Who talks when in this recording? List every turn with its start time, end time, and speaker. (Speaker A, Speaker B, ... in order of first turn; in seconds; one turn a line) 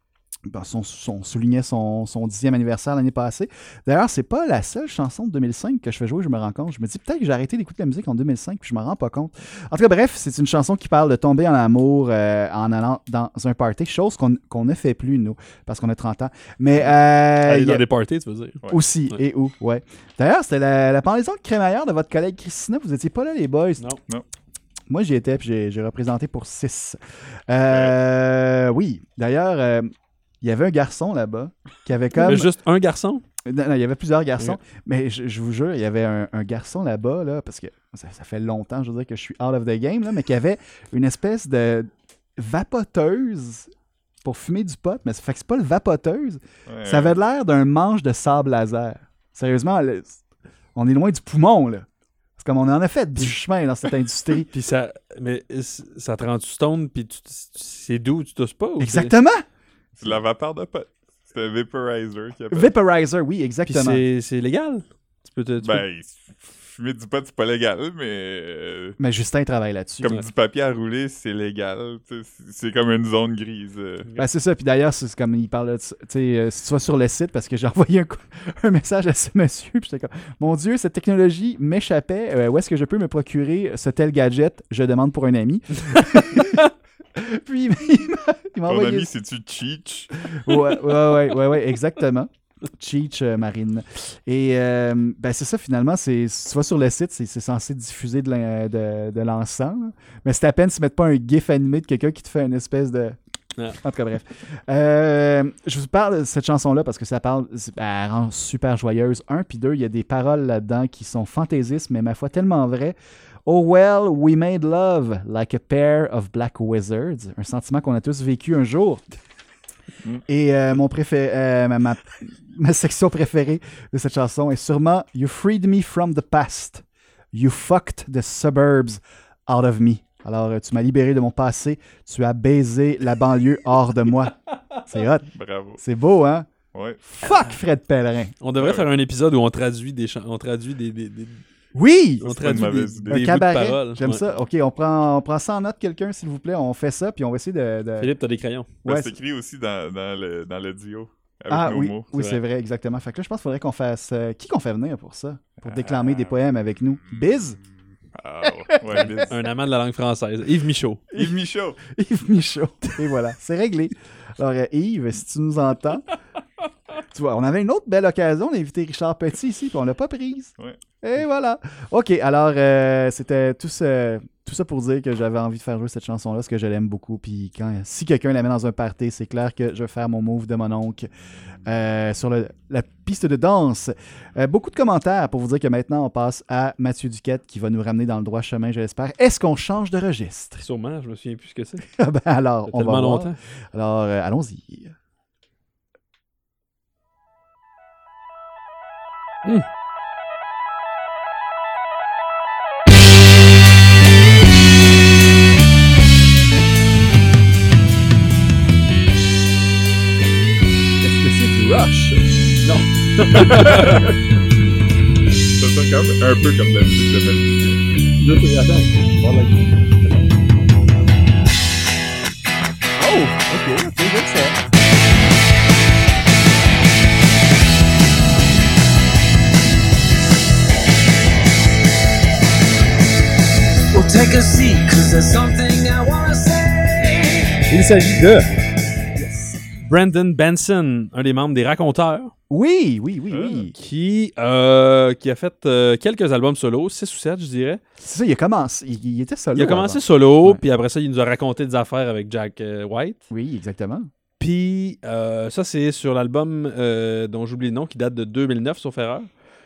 Speaker A: 0.5-17.8
Speaker B: 16.8-18.6
Speaker A: 18.7-23.8
Speaker A: 24.9-29.9
Speaker C: 27.7-28.0
Speaker A: 30.4-32.5
Speaker B: 32.2-33.2
Speaker A: 33.5-43.7
Speaker A: 44.2-50.2
Speaker C: 46.7-47.1
Speaker A: 50.8-51.9
Speaker A: 52.4-54.5
Speaker B: 54.5-59.1
Speaker A: 58.8-59.4
Speaker C: 60.0-62.7
Speaker A: 62.5-64.0
Speaker B: 63.7-65.8
Speaker C: 65.6-69.0
Speaker A: 69.0-70.2
Speaker C: 70.0-74.1
Speaker A: 74.2-86.6
Speaker B: 86.4-86.7
Speaker A: 87.2-89.1
Speaker C: 88.7-90.1
Speaker A: 90.3-103.2
Speaker A: 103.8-119.0
Speaker A: 120.3-136.5
Speaker C: 135.3-135.8
Speaker C: 136.7-137.0
Speaker A: 137.1-138.3
Speaker B: 138.4-141.4
Speaker C: 138.6-138.9
Speaker A: 141.8-148.1
Speaker B: 142.2-144.2
Speaker C: 142.2-143.2
Speaker B: 148.0-148.7
Speaker A: 148.8-149.1
Speaker C: 148.8-152.1
Speaker A: 151.5-157.6
Speaker B: 152.1-152.4
Speaker C: 155.6-156.3
Speaker C: 158.2-159.3
Speaker A: 158.7-159.3
Speaker B: 159.2-161.0
Speaker A: 161.1-166.0
Speaker C: 161.2-161.8
Speaker A: 167.1-181.1
Speaker A: 181.7-190.6
Speaker B: 190.6-191.8
Speaker A: 191.9-194.9
Speaker B: 192.7-193.4
Speaker D: 211.2-212.8
Speaker C: 213.3-214.0
Speaker D: 213.4-213.9
Speaker C: 215.6-217.8
Speaker D: 218.2-219.1
Speaker A: 223.0-224.6
Speaker E: 233.9-238.2
Speaker B: 237.7-238.4
Speaker B: 239.8-242.3
Speaker A: 242.5-243.7
Speaker C: 243.3-243.7
Speaker B: 243.8-247.8
Speaker A: 248.0-250.6
Speaker B: 249.6-253.2
Speaker A: 253.3-254.1
Speaker B: 254.4-259.3